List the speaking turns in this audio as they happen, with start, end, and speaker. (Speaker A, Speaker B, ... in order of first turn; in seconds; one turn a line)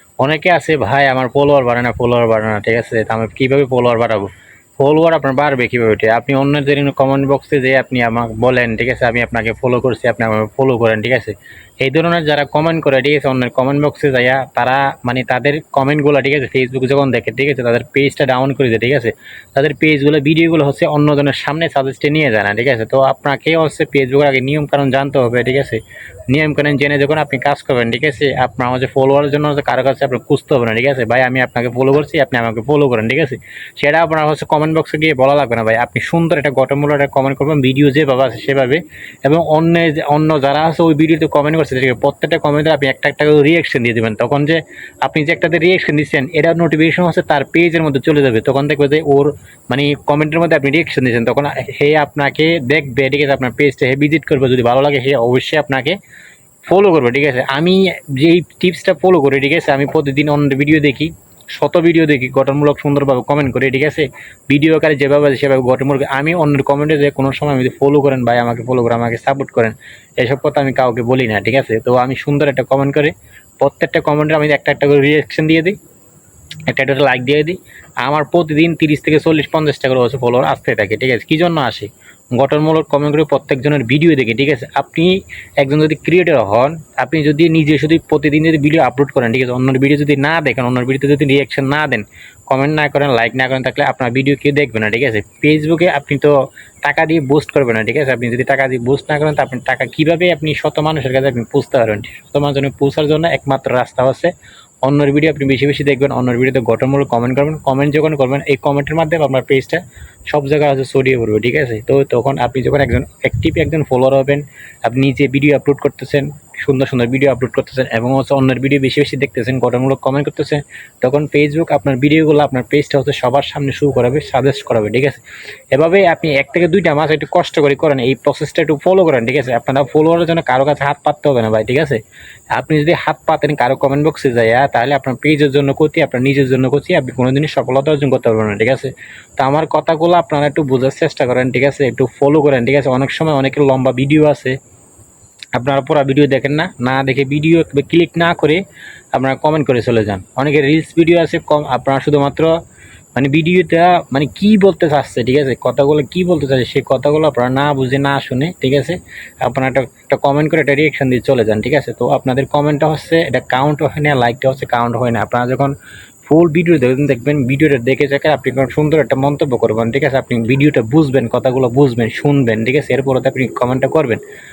Speaker A: 0.2-56.0
Speaker A: 56.7-75.8
Speaker A: 76.7-104.3
Speaker A: 104.8-125.2
Speaker A: 125.7-132.0
Speaker A: 132.5-144.6
Speaker A: 145.6-148.6
Speaker A: 149.1-152.5
Speaker A: 153.2-174.2